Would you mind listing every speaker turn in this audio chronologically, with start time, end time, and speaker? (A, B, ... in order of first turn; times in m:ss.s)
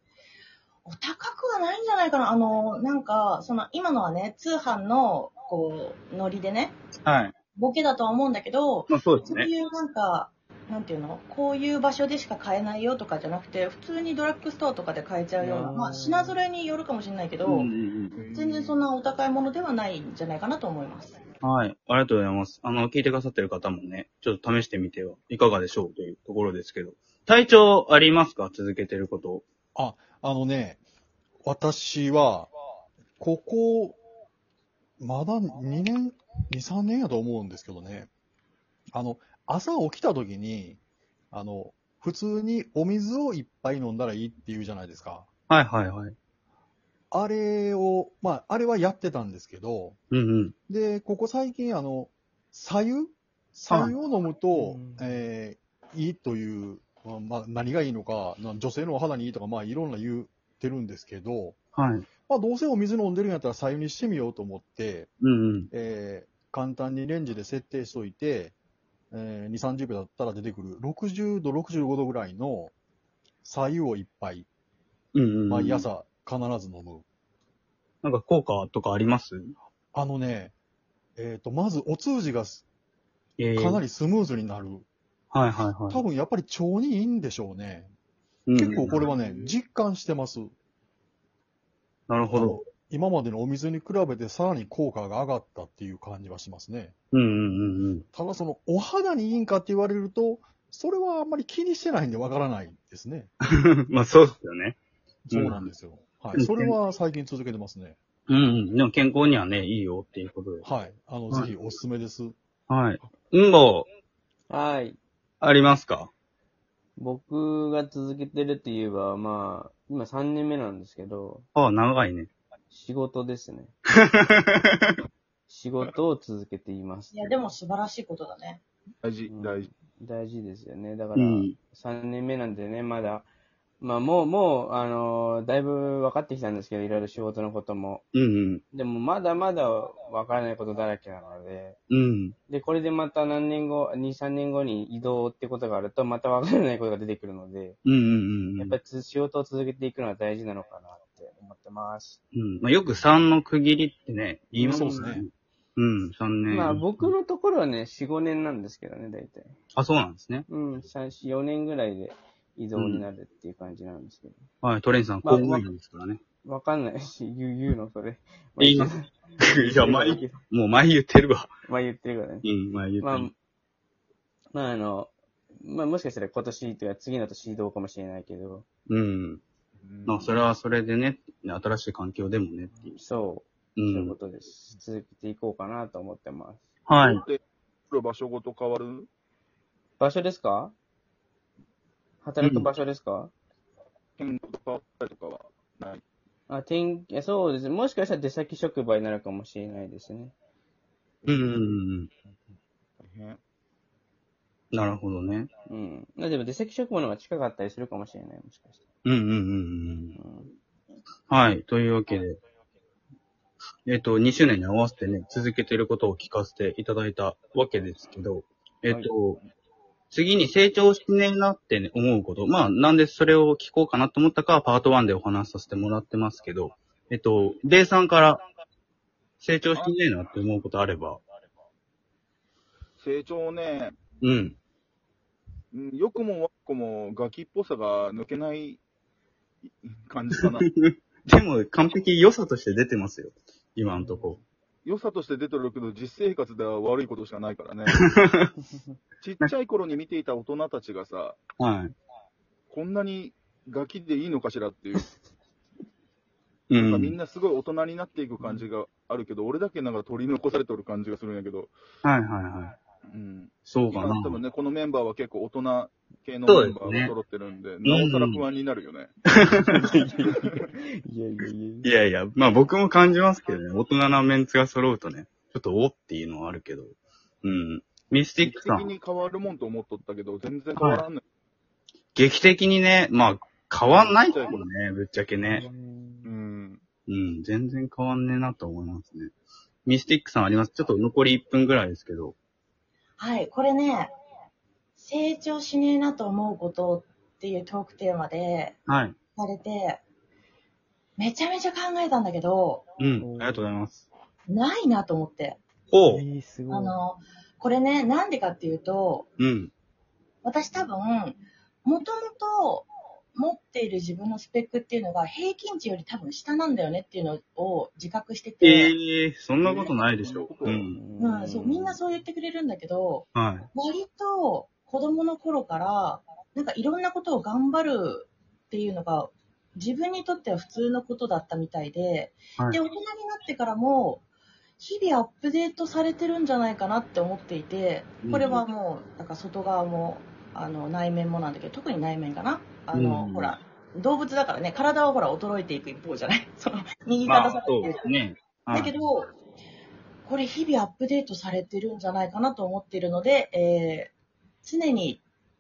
0:00.9-0:06.8 A
0:07.0-0:07.3 B
0:07.6-0:17.7 A
0:08.9-0:09.5 B
0:15.4-0:16.4 C
0:17.4-0:18.2 B
0:18.2-0:18.8 D
0:18.3-0:21.2 A
0:21.4-0:29.4 B
0:29.8-0:30.8 E
0:31.4-0:32.5 E
0:33.2-0:34.0 E
0:35.0-0:38.1 E
0:38.9-0:40.8 E
0:41.3-0:45.3 E
0:45.5-0:46.2 B
0:47.1-0:50.0 E
0:50.1-0:50.6 B
0:50.7-1:01.6 E
0:54.5-0:55.2 C
1:01.8-1:02.1 B
1:02.3-1:05.1 E
1:05.2-1:05.7 B
1:05.7-1:08.6 E
1:09.1-1:12.7 E
1:13.4-1:14.5 E
1:15.1-1:15.9 B
1:15.5-1:17.0 E
1:18.0-1:19.6 B
1:19.9-1:20.5 E
1:21.2-1:22.7 E
1:23.4-1:23.8 B
1:23.6-1:24.9 E
1:25.3-1:26.0 B
1:25.9-1:27.9 E
1:28.5-1:29.0 B
1:28.6-1:30.5 E
1:29.0-1:29.5 D
1:32.1-1:32.6 B
1:32.3-1:36.9 E
1:37.1-1:38.1 B
1:38.1-1:43.3 E
1:43.4-1:44.8 B
1:45.3-1:48.0 E
1:45.3-1:45.7 B
1:46.4-1:46.8 B
1:48.3-1:50.6 B
1:50.6-1:52.4 E
1:52.7-1:53.9 B
1:54.5-1:55.0 C
1:55.4-1:56.1 B
1:57.0-2:01.5 C
2:01.6-2:02.3 B
2:02.7-2:03.7 C
2:04.1-2:04.6 B
2:05.5-2:07.5 C
2:07.1-2:08.6 A
2:09.0-2:09.7 D
2:09.3-2:13.3 C
2:11.2-2:11.6 B
2:13.8-2:18.0 C
2:18.1-2:18.6 B
2:18.7-2:21.8 C
2:21.9-2:22.4 B
2:22.5-2:27.8 C
2:27.8-2:28.8 B
2:28.6-2:32.2 C
2:32.4-2:37.1 B
2:34.6-2:35.2 C
2:34.6-2:35.2 E
2:36.5-2:39.6 C
2:39.8-2:40.5 B
2:40.5-2:44.4 C
2:42.8-2:43.0 B
2:44.6-2:46.2 B
2:45.2-2:45.7 C
2:46.4-2:50.4 C
2:48.6-2:51.5 B
2:51.6-2:52.5 C
2:52.4-2:53.3 B
2:53.0-2:53.3 C
2:54.5-2:58.7 C
2:58.9-2:59.4 B
2:59.8-3:00.4 D
3:00.1-3:03.0 B
3:03.0-3:06.6 C
3:03.8-3:04.2 B
3:06.9-3:07.2 B
3:07.0-3:09.1 D
3:10.0-3:10.8 C
3:12.2-3:13.3 C
3:12.4-3:12.7 B
3:14.2-3:16.0 D
3:16.5-3:20.4 C
3:21.2-3:23.4 D
3:21.3-3:22.1 B
3:24.7-3:25.5 B
3:25.7-3:28.8 C
3:29.0-3:30.2 B
3:30.2-3:30.5 C
3:31.3-3:32.4 B
3:33.9-3:39.4 B
3:40.1-3:48.4 B
3:49.4-3:51.2 B
3:53.0-3:54.0 D
3:54.2-3:54.6 B
3:55.7-3:58.8 D
3:59.6-4:00.7 D
4:00.4-4:04.4 B
4:04.0-4:04.3 C
4:04.8-4:08.1 D
4:08.0-4:08.5 B
4:09.2-4:11.4 D
4:11.6-4:11.9 B
4:12.7-4:15.1 D
4:16.7-4:17.2 B
4:16.7-4:21.7 D
4:22.0-4:22.8 B
4:23.1-4:29.1 D
4:23.7-4:24.4 B
4:26.5-4:27.1 B
4:27.8-4:28.4 B
4:29.3-4:30.2 B
4:29.8-4:31.9 C
4:31.8-4:38.9 B
4:38.4-4:41.2 D
4:40.8-4:41.0 B
4:42.2-4:45.6 B
4:43.9-4:44.6 D
4:45.4-4:46.3 C
4:46.2-4:46.8 D
4:47.1-4:49.3 B
4:49.8-4:52.4 B
4:53.2-4:54.1 A
4:55.0-4:58.8 A
4:58.9-4:59.2 B
4:59.4-5:00.0 A
5:01.2-5:02.9 A
5:03.0-5:04.1 B
5:03.2-5:03.6 C
5:04.5-5:05.6 A
5:05.9-5:06.2 B
5:06.1-5:07.0 C
5:06.7-5:09.3 A
5:09.4-5:09.7 B
5:10.4-5:18.9 A
5:18.6-5:21.0 B
5:19.6-5:20.9 D
5:20.9-5:22.0 C
5:21.2-5:34.2 A
5:23.4-5:23.7 B
5:34.8-5:48.0 A
5:38.2-5:38.6 B
5:42.9-5:43.6 B
5:47.2-5:48.9 B
5:48.7-5:49.3 A
5:50.3-5:54.1 A
5:54.6-5:55.2 A